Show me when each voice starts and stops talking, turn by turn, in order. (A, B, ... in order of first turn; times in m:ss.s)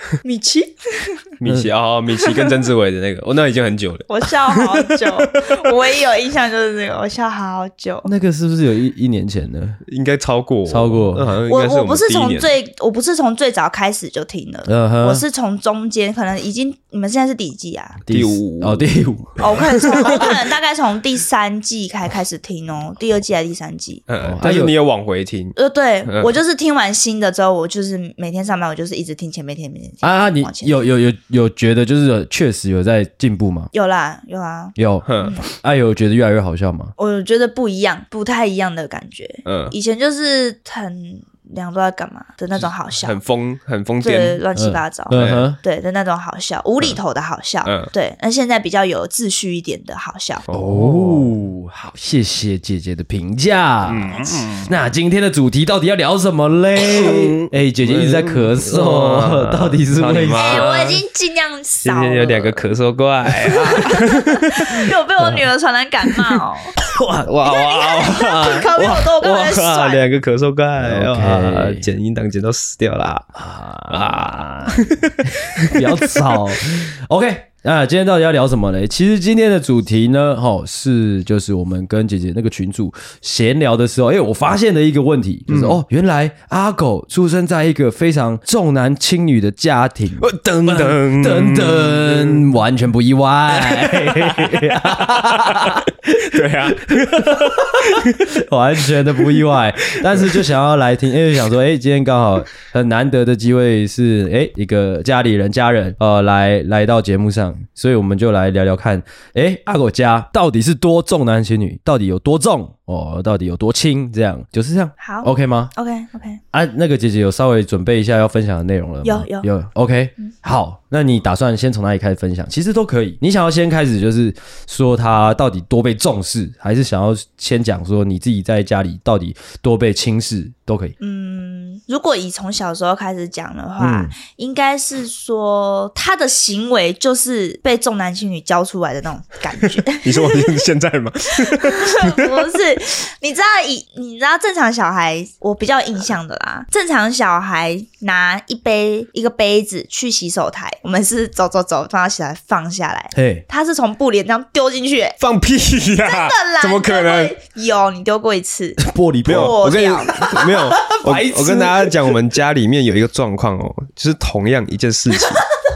0:00.2-0:01.2 A
0:01.4-0:05.1 B
0:04.1-0:08.1 A
0:08.1-0:09.8 C
0:09.9-0:12.5 B
0:10.7-0:11.3 C
0:11.5-0:18.0 A
0:14.7-0:15.2 C
0:18.1-0:20.3 C
0:18.1-0:18.9 B
0:19.4-0:24.0 A
0:24.1-0:26.3 B
0:24.2-0:24.7 C
0:25.6-0:30.8 A
0:30.0-0:33.7 C
0:33.7-0:35.4 A
0:34.8-0:36.9 C
0:35.1-0:35.4 B
0:37.0-0:43.2 A
0:39.4-0:39.8 B
0:42.9-0:44.4 B
0:44.0-0:50.4 A
0:44.6-0:45.6 C
0:45.1-0:45.5 B
0:47.6-0:47.9 B
0:50.5-0:51.3 B
0:50.6-1:00.7 C
0:53.8-0:54.7 B
0:56.8-1:01.0 B
1:00.4-1:02.6 A
1:01.8-1:04.7 B
1:03.4-1:06.8 A
1:06.8-1:07.3 C
1:07.2-1:13.3 B
1:07.4-1:10.0 A
1:10.8-1:11.9 C
1:13.4-1:55.7 C
1:13.9-1:16.4 B
1:25.5-1:25.8 B
1:30.2-1:32.5 B
1:33.6-1:38.3 B
1:39.2-1:40.5 B
1:55.0-1:56.4 A
1:56.5-2:11.0 C
1:59.0-1:59.5 A
2:11.0-2:20.5 A
2:13.8-2:14.1 C
2:20.0-2:22.5 B
2:21.4-2:35.2 A
2:33.1-2:33.4 C
2:35.2-2:37.4 B
2:36.0-2:40.3 A
2:38.8-2:39.6 C
2:39.3-2:45.5 B
2:40.2-2:42.1 C